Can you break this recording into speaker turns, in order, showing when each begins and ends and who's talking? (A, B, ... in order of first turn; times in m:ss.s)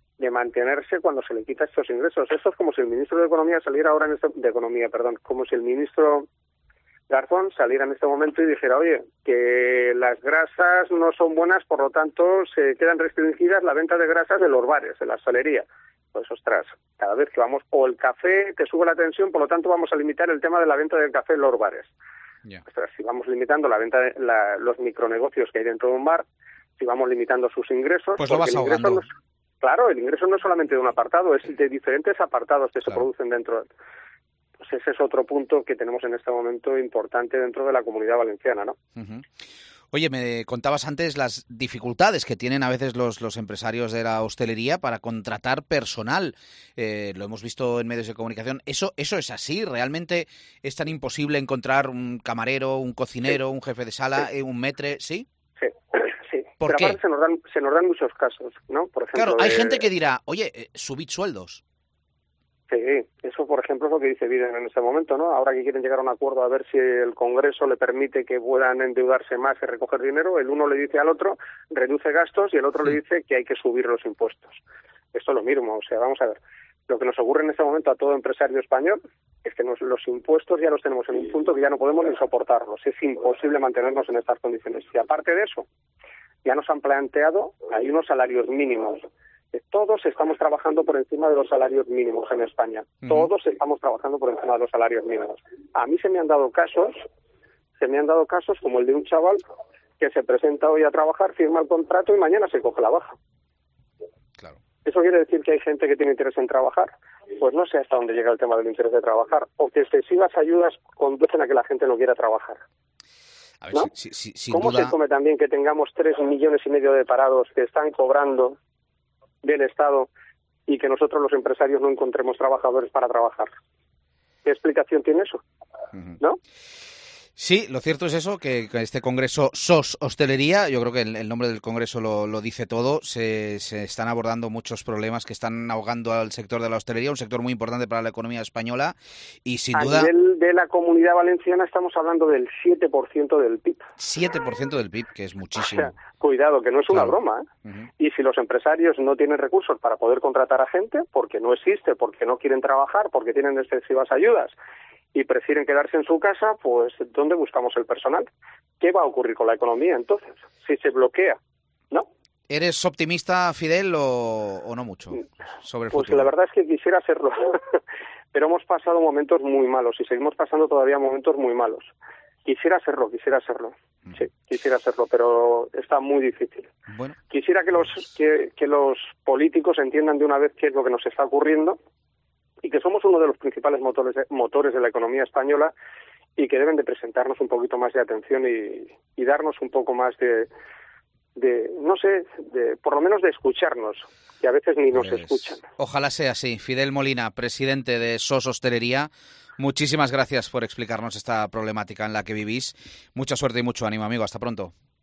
0:00.2-0:06.3 A
0:07.1-0:21.9 A
0:22.6-0:26.2 A
0:26.8-0:29.1 A
0:28.2-0:29.0 B
0:29.6-0:33.7 A
0:34.6-0:38.8 A
0:39.0-0:39.2 B
0:39.9-0:55.2 B
0:55.6-0:59.8 A
0:56.6-0:57.0 B
0:59.1-1:01.6 B
1:02.7-1:14.6 A
1:15.1-1:25.6 A
1:26.4-1:29.0 A
1:29.5-1:37.0 A
1:37.8-1:39.4 A
1:40.0-1:43.2 A
1:44.8-1:52.6 A
1:53.6-1:54.9 B
1:54.5-1:58.6 A
1:59.4-2:00.1 A
2:00.7-2:03.5 A
2:04.4-2:05.4 A
2:07.4-2:20.1 B
2:19.7-2:23.9 A
2:24.0-2:25.9 B
2:25.6-2:27.5 A
2:28.0-2:34.5 A
2:35.1-2:38.3 A
2:38.8-2:41.4 A
2:42.5-2:46.3 B
2:45.9-2:47.8 A
2:48.3-2:51.9 A
2:52.4-2:56.7 A
2:56.9-2:57.1 B
2:57.3-3:01.8 A
3:02.6-3:05.7 A
3:06.4-3:10.5 A
3:11.3-3:15.6 A
3:15.8-3:24.7 B